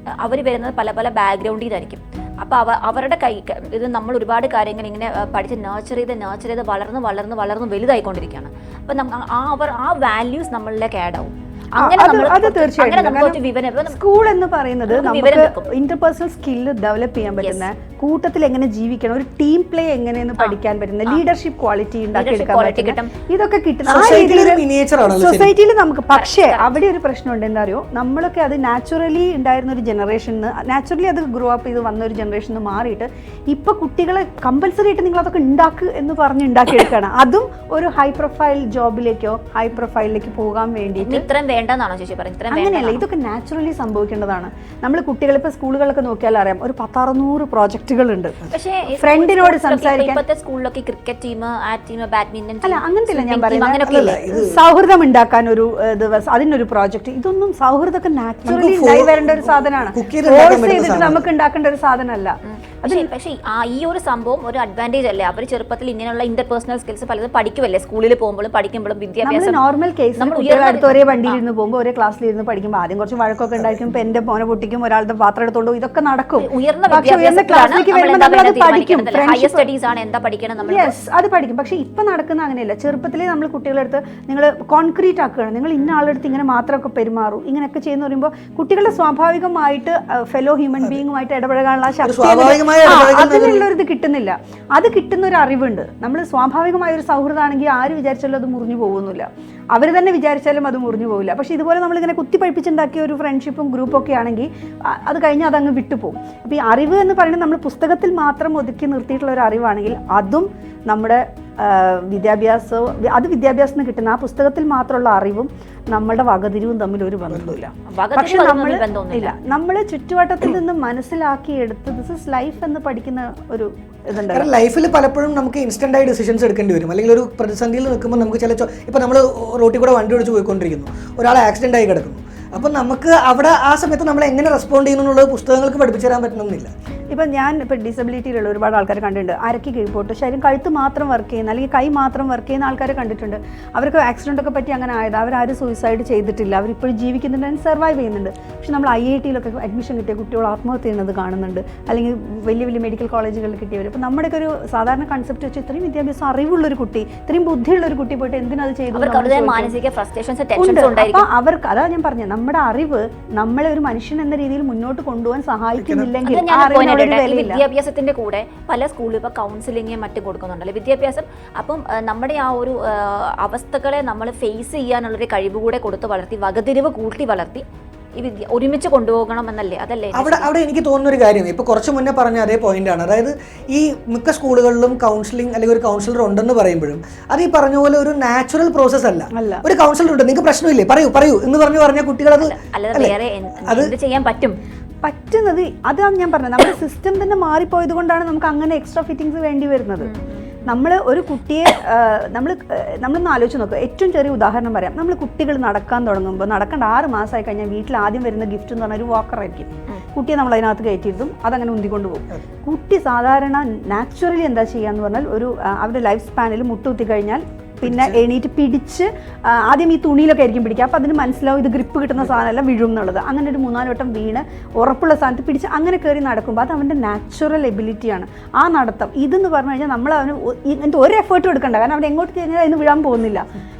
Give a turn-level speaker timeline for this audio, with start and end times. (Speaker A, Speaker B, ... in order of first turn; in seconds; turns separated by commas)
Speaker A: 0.2-14.0, Speaker B: 11.8-13.4, Speaker B: 13.9-41.2, Speaker A: 14.9-15.7, Speaker A: 17.4-17.7, Speaker A: 20.4-21.2, Speaker A: 22.1-23.1, Speaker C: 23.9-25.5, Speaker A: 26.1-26.7, Speaker A: 41.0-43.0, Speaker B: 42.5-50.2, Speaker A: 48.5-54.2, Speaker B: 52.6-63.1, Speaker C: 53.8-54.6, Speaker C: 58.4-61.3, Speaker A: 62.4-69.6, Speaker B: 69.2-79.7, Speaker A: 70.2-71.4, Speaker A: 76.4-81.0, Speaker B: 80.6-124.5, Speaker C: 92.0-93.7, Speaker C: 117.3-117.6, Speaker A: 117.9-119.3, Speaker C: 124.3-136.7, Speaker B: 137.1-159.7, Speaker A: 158.9-161.3, Speaker B: 160.6-167.6, Speaker C: 165.8-166.1, Speaker A: 166.2-177.6, Speaker A: 178.2-180.5, Speaker C: 180.1-193.1, Speaker B: 189.3-189.6, Speaker A: 192.4-194.6, Speaker C: 193.7-193.9, Speaker B: 195.0-200.1, Speaker A: 200.0-200.5, Speaker B: 200.7-233.4, Speaker C: 217.8-218.2